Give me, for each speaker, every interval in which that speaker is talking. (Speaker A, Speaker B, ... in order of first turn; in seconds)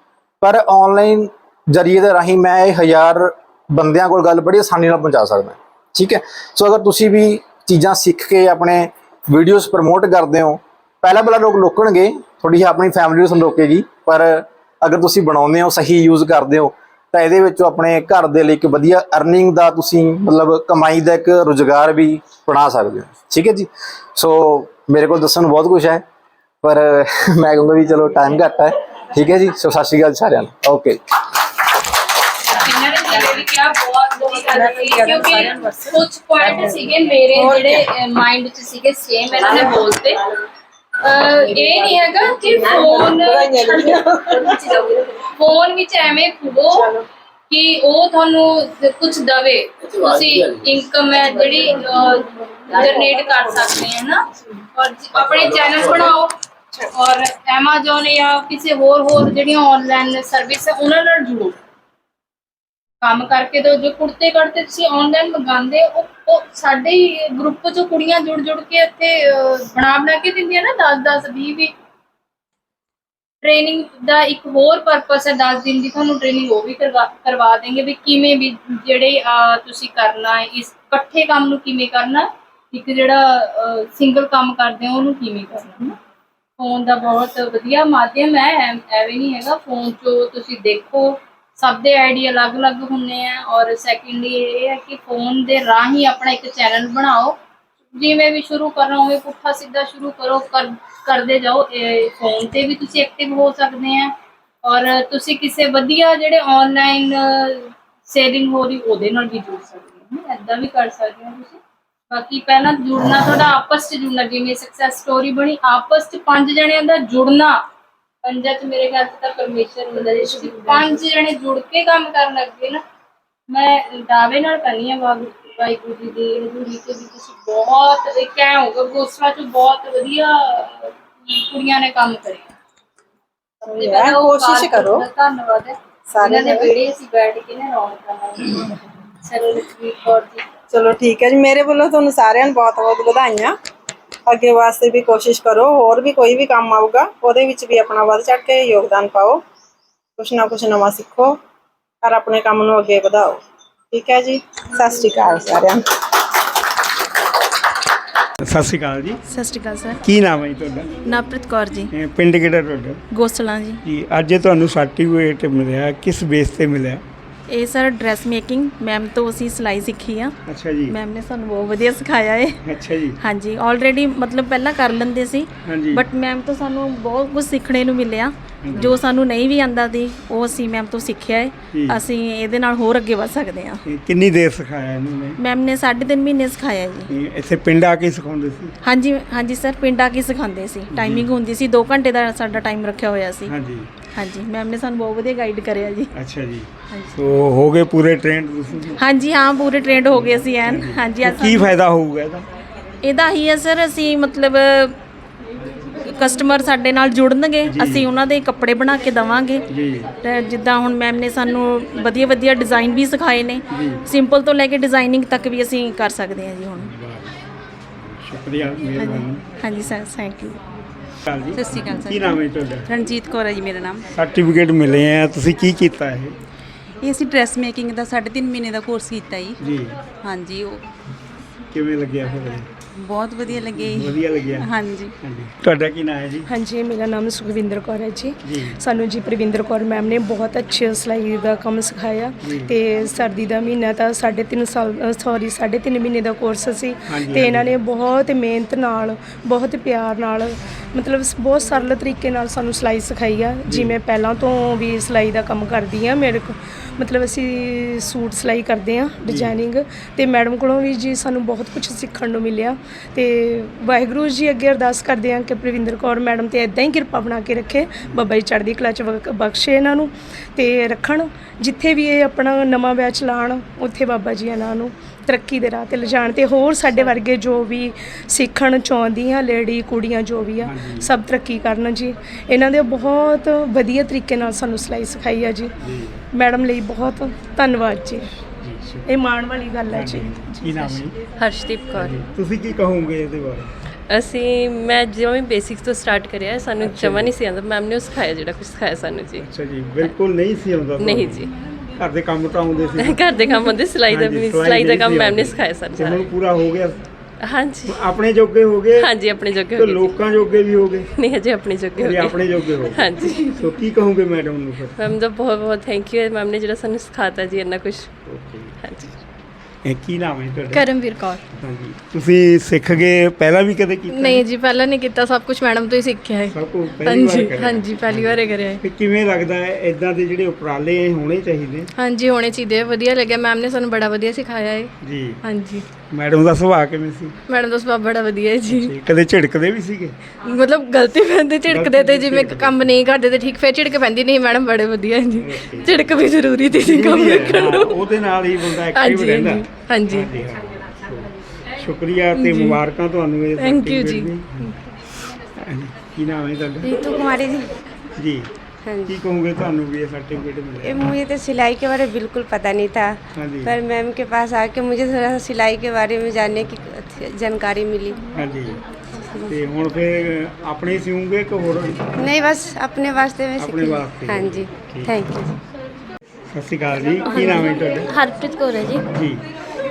Speaker A: 0.4-26.0, 26.6-31.0
Speaker B: 32.5-40.2, 41.0-46.9, 47.5-54.2, 54.8-56.3, 57.0-61.6, 63.0-71.7, 73.4-86.0, 86.6-97.4, 98.0-104.1, 104.7-111.6, 112.1-117.6, 118.2-122.8, 123.5-132.5, 133.7-140.5, 320.7-321.4, 324.1-328.8, 332.0-334.9, 335.4-335.9, 337.5-338.9, 340.4-347.9, 348.9-350.3, 352.4-352.8, 353.6-354.3
Speaker C: 42.7-44.7, 133.6-135.0, 136.1-136.7, 140.7-143.6, 144.3-149.4, 150.2-151.4, 152.0-155.8
Speaker D: 158.4-159.2, 160.0-160.9, 161.9-163.0, 163.8-167.0, 170.5-171.0, 172.6-173.2, 175.6-176.1, 178.6-179.0, 181.7-182.1, 183.8-185.4, 187.1-188.8, 190.9-191.3, 193.5-193.9, 196.1-199.0, 200.1-202.5, 207.6-208.1, 209.7-210.1, 213.7-214.1, 216.8-217.3, 218.0-219.4, 221.3-222.9, 224.1-226.3, 229.6-229.9, 231.7-232.7, 233.8-234.7, 235.2-236.5, 238.4-238.8, 242.4-242.7, 247.1-247.7, 253.7-254.0, 259.3-259.6, 280.6-281.1, 285.8-286.1, 288.6-289.1, 289.9-291.1, 292.0-293.7, 296.8-297.3, 299.4-303.6, 304.1-307.0, 307.9-309.1, 309.7-311.1, 311.9-315.0, 318.2-318.8, 319.9-320.9, 321.6-324.5, 326.5-331.9, 335.0-335.4, 336.1-337.4, 338.7-340.2, 341.7-342.9, 345.4-345.9, 346.7-354.7, 355.6-357.1, 358.2-358.5, 359.1-361.1, 363.4-363.8, 368.3-368.8, 369.5-372.1, 373.6-375.2, 376.5-378.1, 379.1-379.4
Speaker E: 159.3-160.0, 161.1-161.9, 163.1-163.8, 167.5-170.4, 170.9-172.6, 173.2-183.8, 185.4-187.1, 188.8-193.5, 194.1-196.1, 199.0-201.7, 203.0-205.0, 206.1-209.7, 210.2-216.9, 219.0-220.6, 377.3-379.0
Speaker F: 221.5-224.1, 227.0-229.6, 230.2-230.8, 232.9-235.2
Speaker G: 236.5-285.7, 286.3-288.3, 289.1-291.0
Speaker H: 291.4-292.2, 294.1-299.4, 301.0-301.5, 303.0-306.3, 307.4-308.0, 309.0-310.2, 311.2-312.4, 312.9-313.4, 315.0-318.2, 318.8-319.1
Speaker I: 356.9-357.7, 358.9-359.2, 360.8-368.2, 372.2-375.6